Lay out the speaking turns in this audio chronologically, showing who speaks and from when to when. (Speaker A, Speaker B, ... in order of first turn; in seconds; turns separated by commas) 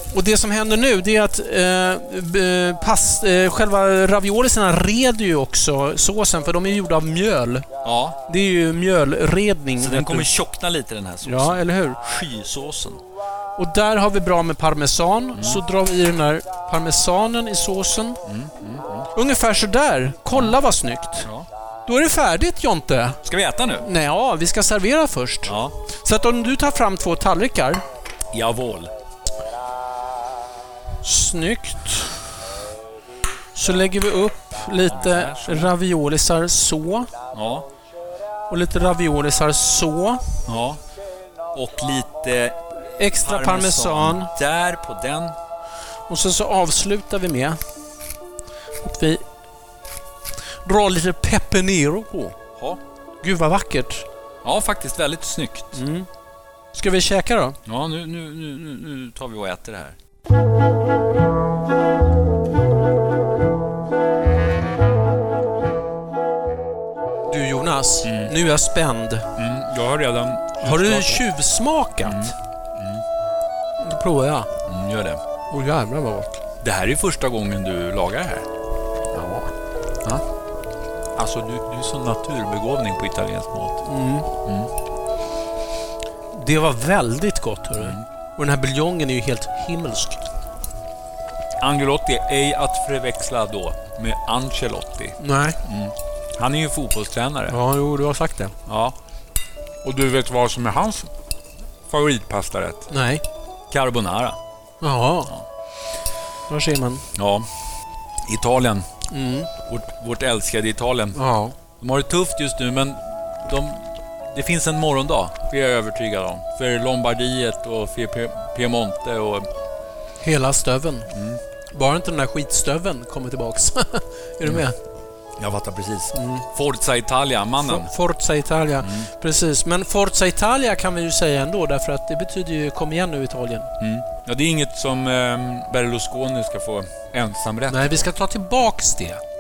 Speaker A: 0.1-7.7, Speaker B: 7.8-8.2, Speaker A: 8.3-10.3, Speaker B: 9.8-13.0, Speaker A: 11.2-12.0, Speaker A: 13.6-18.2, Speaker B: 15.4-15.6, Speaker B: 18.3-19.1, Speaker A: 19.1-21.3, Speaker A: 21.9-23.2, Speaker B: 23.2-23.9, Speaker A: 23.8-27.8, Speaker B: 25.5-25.8, Speaker B: 28.3-28.9, Speaker A: 31.0-32.2, Speaker A: 33.5-37.1, Speaker B: 34.9-35.7, Speaker B: 37.3-37.7, Speaker A: 38.5-40.2, Speaker B: 40.5-40.8, Speaker B: 41.5-42.6, Speaker A: 43.0-44.3, Speaker B: 43.2-45.4, Speaker A: 46.1-47.6, Speaker A: 48.8-49.2, Speaker A: 50.6-52.4, Speaker A: 53.2-54.1, Speaker B: 54.4-55.8, Speaker A: 55.7-56.1, Speaker A: 56.7-57.6, Speaker B: 57.7-60.0, Speaker A: 67.3-69.3, Speaker B: 68.0-68.3, Speaker B: 69.4-71.3, Speaker A: 70.6-72.3, Speaker B: 72.0-73.0, Speaker A: 73.8-74.5, Speaker B: 74.7-75.2, Speaker A: 75.5-76.3, Speaker B: 76.6-78.5, Speaker A: 79.1-79.5, Speaker B: 81.2-83.9, Speaker A: 83.9-84.3, Speaker B: 84.5-84.7, Speaker A: 86.3-90.2, Speaker B: 87.8-88.0, Speaker B: 91.6-97.6, Speaker A: 95.2-95.6, Speaker A: 97.5-98.5, Speaker B: 98.7-99.0, Speaker B: 99.8-101.1, Speaker B: 101.9-102.9, Speaker A: 102.9-103.2, Speaker B: 103.7-104.4, Speaker A: 104.8-105.3, Speaker A: 106.5-107.0, Speaker B: 107.2-107.5, Speaker B: 108.2-108.9, Speaker A: 109.1-109.5, Speaker B: 109.7-111.2, Speaker A: 111.2-111.5, Speaker B: 111.8-119.5, Speaker A: 120.2-121.1, Speaker B: 121.1-121.4, Speaker A: 121.7-124.8, Speaker B: 125.4-127.9, Speaker A: 126.1-126.5, Speaker A: 127.6-133.7, Speaker B: 128.8-129.1, Speaker B: 133.8-138.1, Speaker A: 137.7-139.2